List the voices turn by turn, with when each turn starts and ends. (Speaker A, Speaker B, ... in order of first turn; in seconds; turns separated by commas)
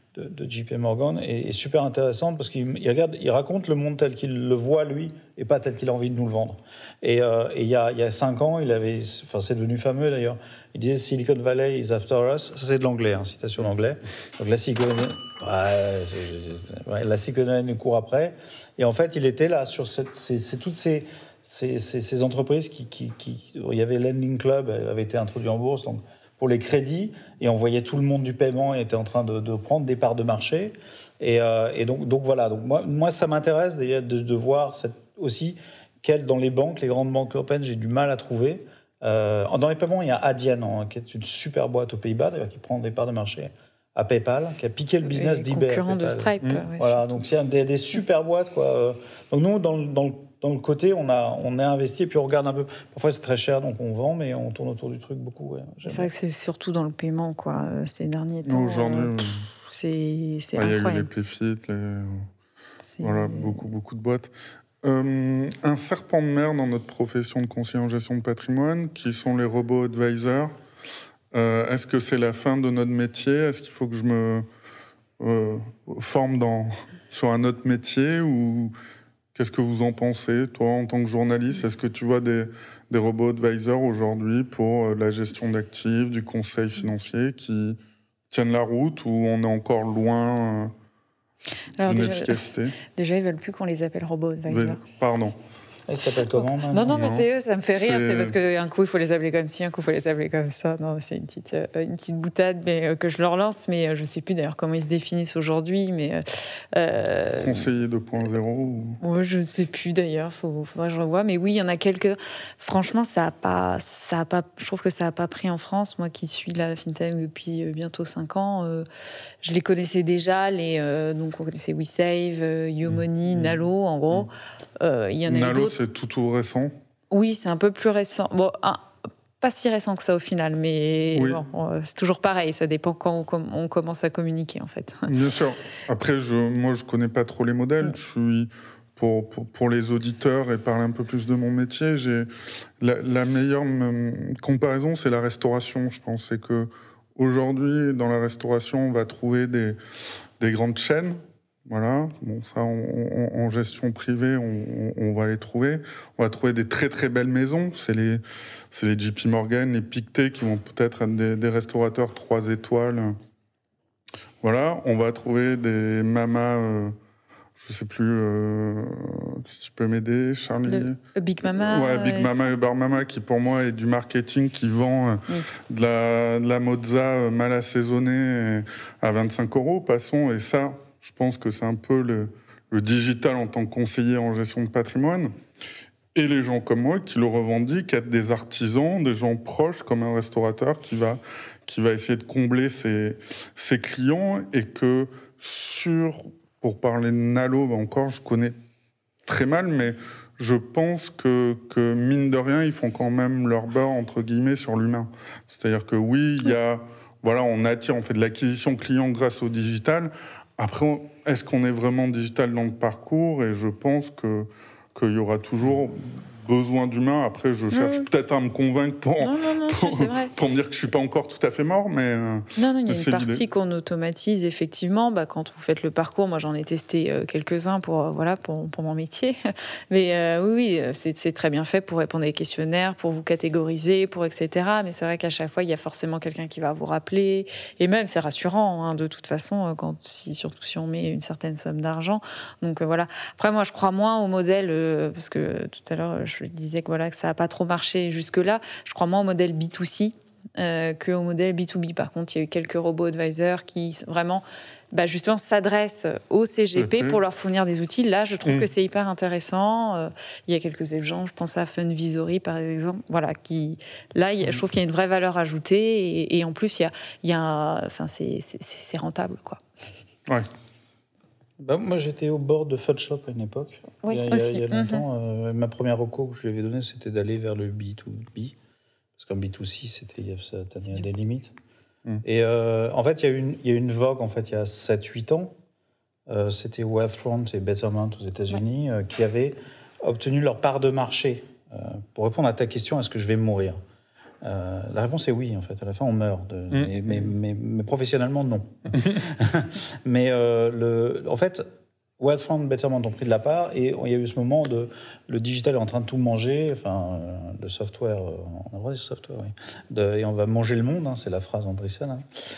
Speaker A: 0.1-56.1, Speaker B: 45.1-47.2, Speaker B: 55.9-61.1, Speaker C: 58.5-59.4, Speaker C: 60.6-62.3, Speaker B: 63.0-63.7, Speaker C: 63.0-64.3, Speaker C: 64.8-70.5, Speaker C: 71.3-74.5, Speaker C: 75.2-78.7, Speaker C: 79.3-87.8, Speaker C: 88.3-90.7, Speaker B: 91.8-94.8, Speaker C: 91.8-92.8, Speaker C: 94.5-95.3, Speaker A: 95.9-96.9, Speaker B: 96.4-107.7, Speaker C: 96.9-97.3, Speaker C: 97.8-98.3, Speaker C: 107.4-109.0, Speaker B: 109.0-118.9, Speaker B: 119.4-125.8, Speaker C: 122.9-123.6, Speaker C: 125.3-126.7, Speaker B: 127.1-128.9, Speaker B: 129.4-135.1, Speaker C: 131.1-131.4, Speaker C: 135.1-142.3, Speaker C: 142.8-149.8, Speaker C: 150.4-163.2, Speaker C: 164.4-167.0, Speaker C: 167.6-185.3, Speaker B: 170.7-172.4, Speaker C: 186.2-198.5, Speaker C: 199.3-223.4, Speaker B: 217.7-218.1, Speaker B: 219.2-220.3, Speaker B: 222.6-229.4, Speaker B: 229.9-269.6, Speaker C: 256.8-257.2, Speaker A: 271.6-278.6, Speaker B: 274.0-275.1, Speaker A: 279.2-281.5, Speaker A: 282.2-285.5, Speaker A: 286.3-293.8, Speaker A: 294.4-301.7, Speaker C: 296.7-297.3, Speaker C: 298.9-299.2, Speaker A: 302.2-312.2